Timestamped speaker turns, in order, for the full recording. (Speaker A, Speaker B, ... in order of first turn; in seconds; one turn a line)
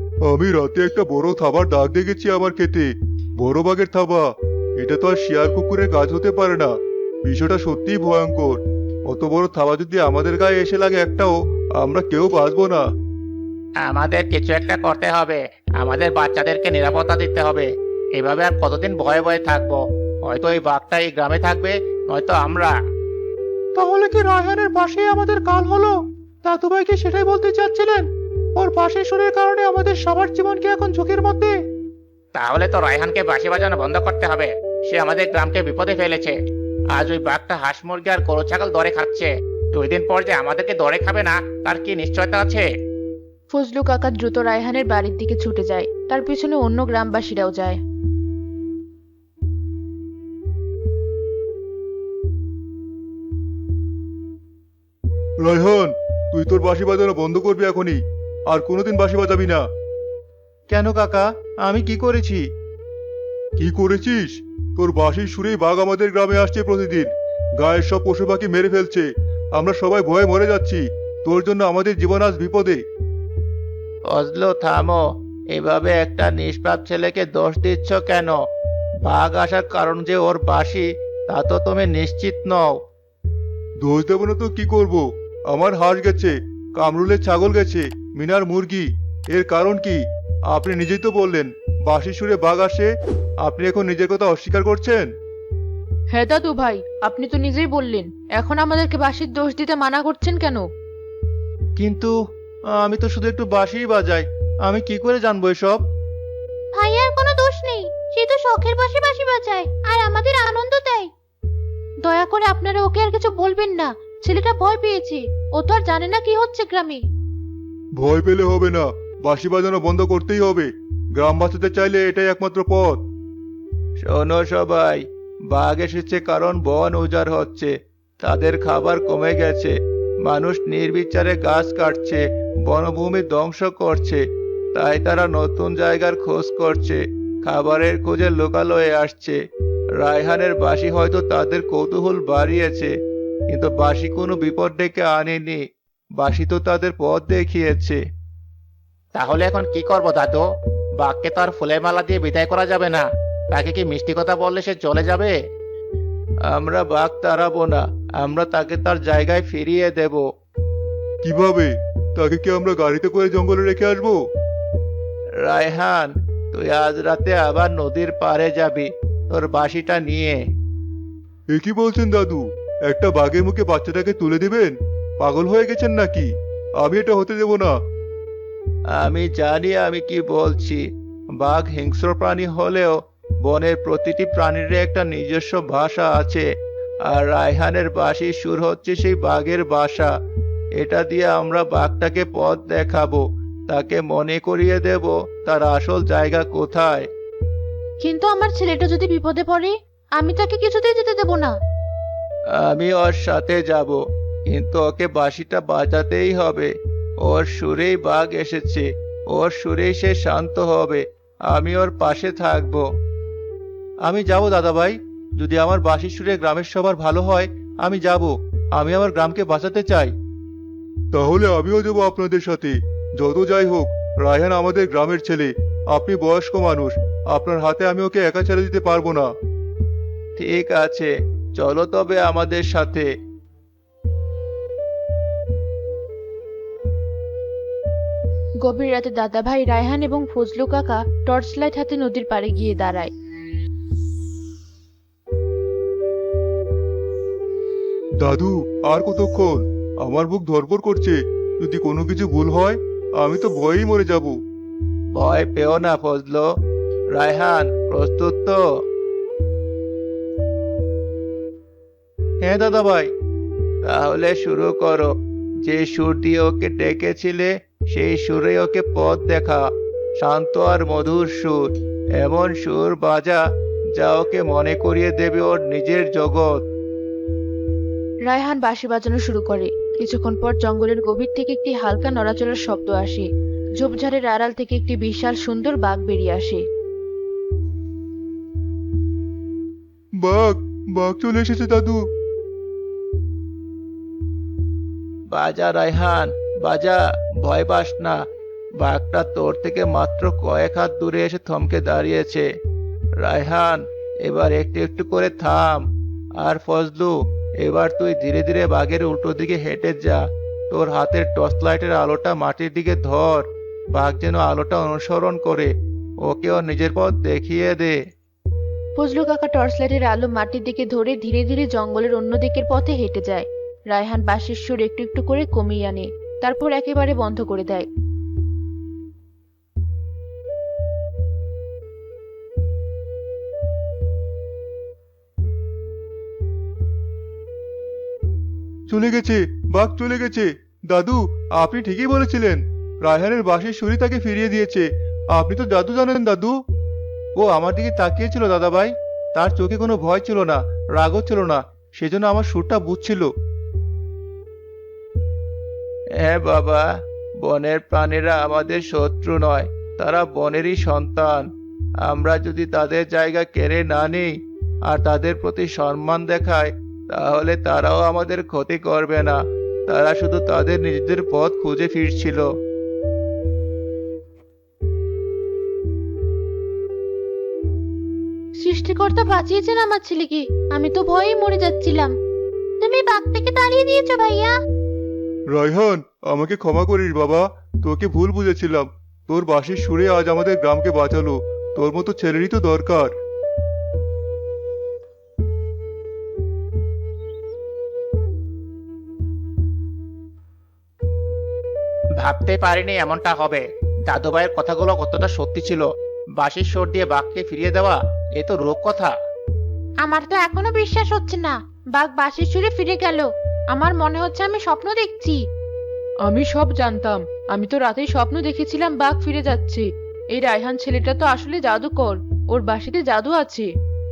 Speaker A: 0.3-12.8
Speaker B: 13.8-22.7
Speaker C: 23.8-31.6
Speaker B: 32.3-36.4
Speaker B: 36.9-42.7
Speaker D: 43.5-47.8
Speaker A: 55.4-59.6
Speaker C: 60.7-62.5
Speaker A: 63.6-72.8
Speaker C: 74.1-75.0
Speaker C: 75.5-78.4
Speaker C: 79.0-82.8
Speaker A: 83.8-90.0
Speaker A: 90.5-92.9
Speaker A: 93.4-95.1
Speaker D: 96.1-100.7
Speaker C: 101.8-102.1
Speaker C: 102.7-105.8
Speaker E: 106.7-111.1
Speaker E: 112.0-117.0
Speaker A: 118.0-123.0
Speaker C: 124.0-134.2
Speaker C: 134.7-139.4
Speaker C: 140.0-142.9
Speaker C: 143.5-145.6
Speaker C: 146.2-148.0
Speaker B: 149.2-150.5
Speaker B: 151.0-155.3
Speaker C: 156.4-160.3
Speaker A: 161.2-164.2
Speaker C: 165.4-170.4
Speaker A: 171.5-177.7
Speaker C: 178.9-180.8
Speaker C: 181.4-186.5
Speaker C: 187.1-190.1
Speaker C: 190.8-197.1
Speaker E: 198.0-201.6
Speaker C: 202.5-212.8
Speaker C: 214.0-220.1
Speaker A: 221.1-229.3
Speaker C: 230.4-233.1
Speaker D: 238.6-243.1
Speaker A: 248.2-254.3
Speaker C: 255.1-256.5
Speaker C: 257.1-258.6
Speaker C: 262.4-263.1
Speaker C: 263.8-265.1
Speaker C: 265.6-269.6
Speaker C: 270.2-273.4
Speaker C: 273.9-276.6
Speaker D: 278.2-283.3
Speaker D: 283.8-286.6
Speaker A: 290.2-292.0
Speaker C: 295.3-298.2
Speaker C: 298.8-302.5
Speaker C: 303.2-305.9
Speaker C: 306.4-318.0
Speaker D: 319.0-327.9
Speaker A: 338.9-346.5
Speaker C: 347.4-353.3
Speaker C: 356.1-356.9
Speaker C: 357.4-361.5
Speaker C: 362.0-364.3
Speaker C: 364.9-372.5
Speaker E: 378.6-382.1
Speaker E: 382.8-384.5
Speaker A: 385.5-393.1
Speaker B: 402.2-409.1
Speaker E: 410.0-415.4
Speaker D: 416.2-423.7